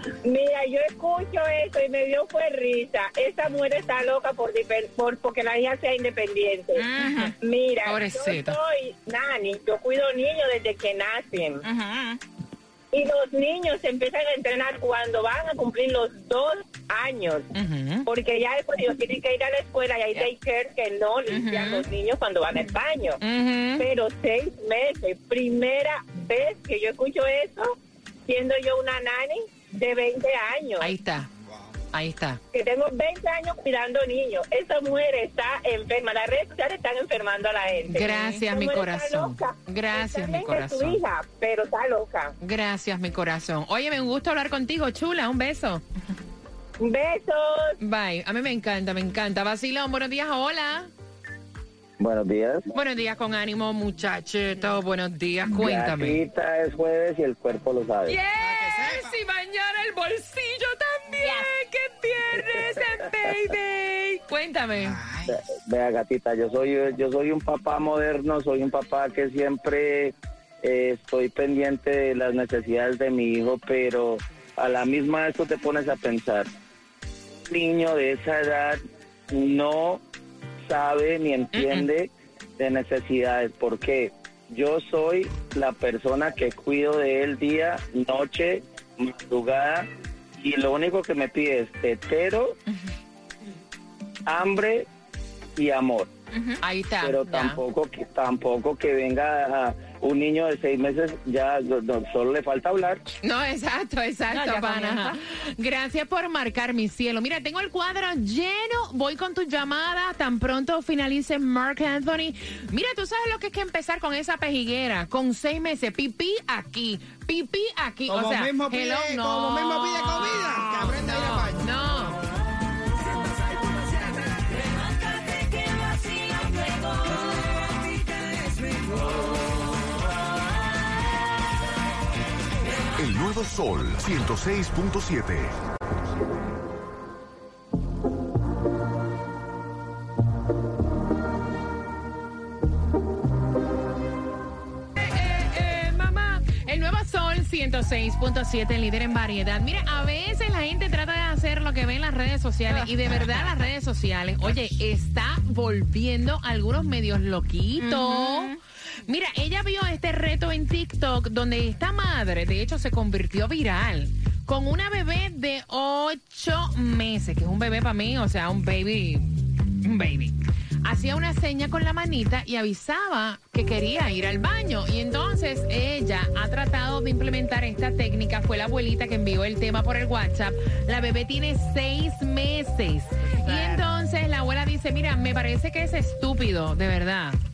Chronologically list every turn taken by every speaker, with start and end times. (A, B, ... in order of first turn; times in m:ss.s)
0:00.2-0:06.9 A
0:06.8-0:07.3 B
0:07.0-0:07.3 C
0:07.4-0:11.6 A
0:07.8-0:08.6 C
0:11.6-0:12.2 B
0:12.9-0:17.5 A
0:17.5-0:18.1 C
0:18.1-0:23.2 A
0:21.3-0:21.8 B
0:23.2-0:23.9 C
0:23.8-0:27.8 A
0:28.3-0:30.9 A
0:30.8-0:31.3 C
0:31.5-0:31.8 D
0:31.9-0:32.4 C
0:32.5-0:42.3 A
0:37.9-0:41.0 C
0:38.1-0:38.4 B
0:42.4-0:45.8 C
0:46.8-0:47.7 A
0:47.8-0:50.9 C
0:52.0-0:52.7 E
0:52.7-0:56.2 C
0:55.5-0:58.2 E
0:58.1-1:05.0 C
0:58.4-0:59.2 D
1:04.8-1:05.4 D
1:05.3-1:16.5 E
1:17.5-1:18.8 E
1:19.3-1:20.0 E
1:20.7-1:29.9 E
1:21.6-1:21.9 C
1:30.4-1:32.6 E
1:34.3-1:34.9 E
1:35.6-1:36.1 E
1:36.6-1:37.6 C
1:37.0-1:43.0 E
1:43.2-2:02.2 C
1:44.3-1:45.2 B
1:58.1-2:01.6 D
2:13.0-2:15.5 F
2:25.0-2:38.5 C
2:32.7-2:33.4 B
2:37.8-2:38.6 B
2:39.1-3:07.4 C
3:03.3-3:03.8 B